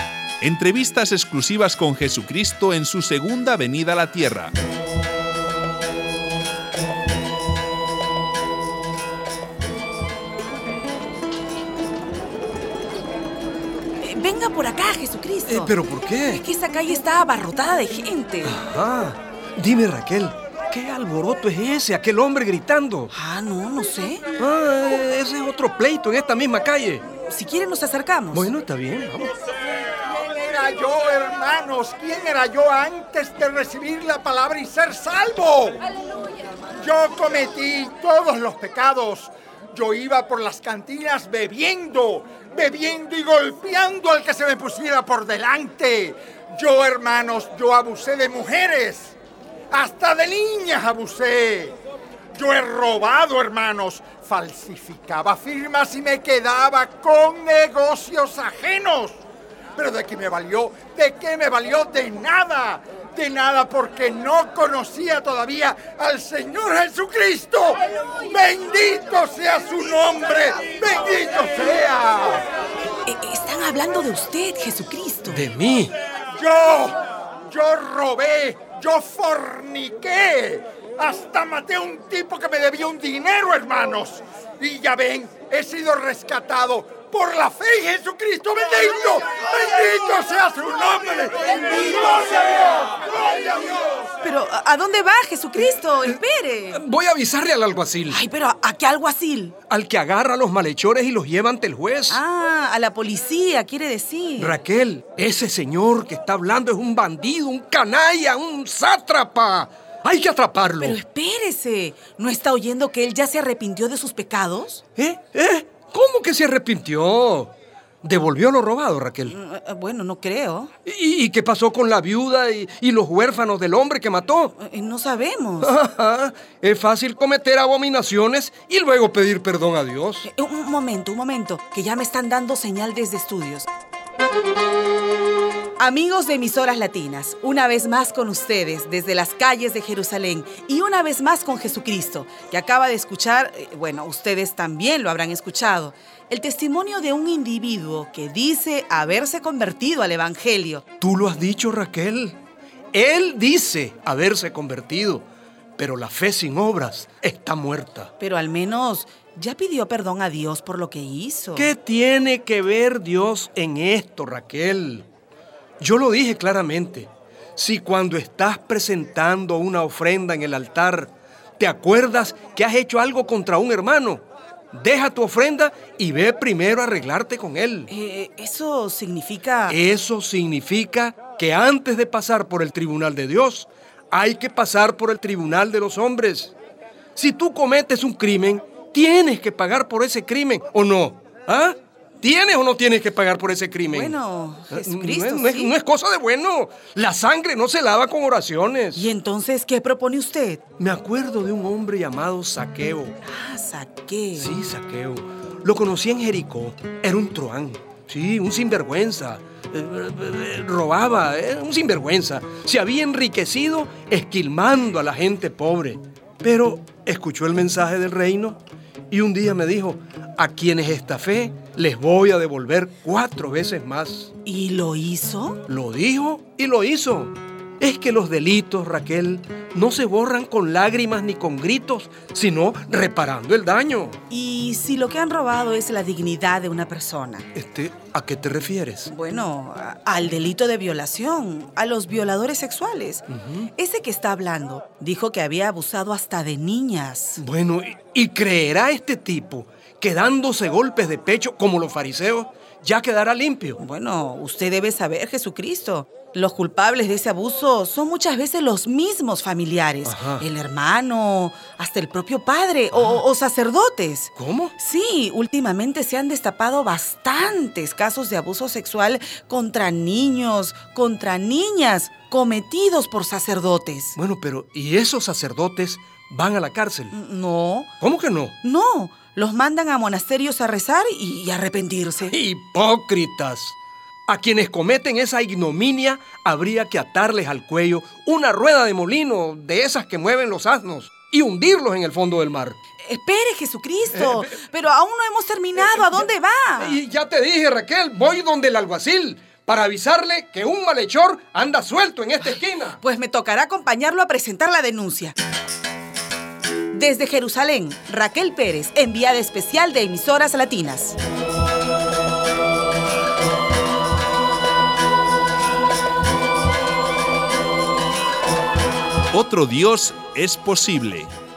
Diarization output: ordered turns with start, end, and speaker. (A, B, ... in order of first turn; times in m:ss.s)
0:00.4-0:04.5 A
0:14.0-0:15.7 B
0:15.5-0:16.4 C
0:16.3-0:18.6 B
0:18.4-0:23.1 C
0:23.1-0:24.3 B
0:24.4-0:27.0 C
0:27.0-0:28.5 B
0:28.3-0:29.4 C
0:30.1-0:35.8 D
0:36.8-0:49.2 D
0:49.7-0:51.8 D
0:52.3-0:59.2 D
0:59.8-1:12.4 D
1:13.0-1:15.5 B
1:15.3-1:15.9 C
1:16.3-1:34.0 D
1:34.2-1:36.8 B
1:36.7-1:38.2 C
1:38.1-1:39.6 B
1:39.7-1:42.2 C
1:42.1-1:44.6 B
1:44.4-1:51.0 C
1:50.8-1:54.8 B
1:55.0-1:59.4 C
1:59.3-2:00.7 B
2:00.8-2:04.6 C
2:04.6-2:05.8 B
2:05.6-2:10.3 C
2:10.2-2:13.7 B
2:15.8-2:30.8 B
2:31.0-2:32.4 C
2:32.9-2:35.3 C
2:35.8-2:38.1 C
2:38.2-2:41.7 B
2:41.6-2:45.1 C
2:45.8-2:57.9 C
2:57.9-2:59.8 B
2:59.7-3:06.5 C
3:07.2-3:14.2 C
3:13.9-3:15.7 B
3:14.7-3:19.1 C
3:19.0-3:20.6 B
3:20.8-3:23.2 C
3:23.2-3:24.6 B
3:24.4-3:44.3 C
3:44.4-3:45.6 B
3:45.7-3:54.2 C
3:54.3-3:57.5 B
3:57.5-3:59.1 C
3:59.1-4:07.4 B
4:03.3-4:03.7 C
4:07.4-4:13.8 C
4:13.8-4:34.2 B
4:20.0-4:20.5 C
4:24.4-4:24.8 C
4:34.2-4:37.2 C
4:37.1-4:37.9 B
4:38.0-4:38.6 C
4:38.6-4:42.4 B
4:42.3-4:52.8 C
4:53.0-4:57.0 B
4:54.1-4:54.5 C
4:55.8-4:56.2 C
4:56.8-5:03.0 C
5:03.0-5:05.4 B
5:06.9-5:11.2 B
5:19.3-5:21.3 A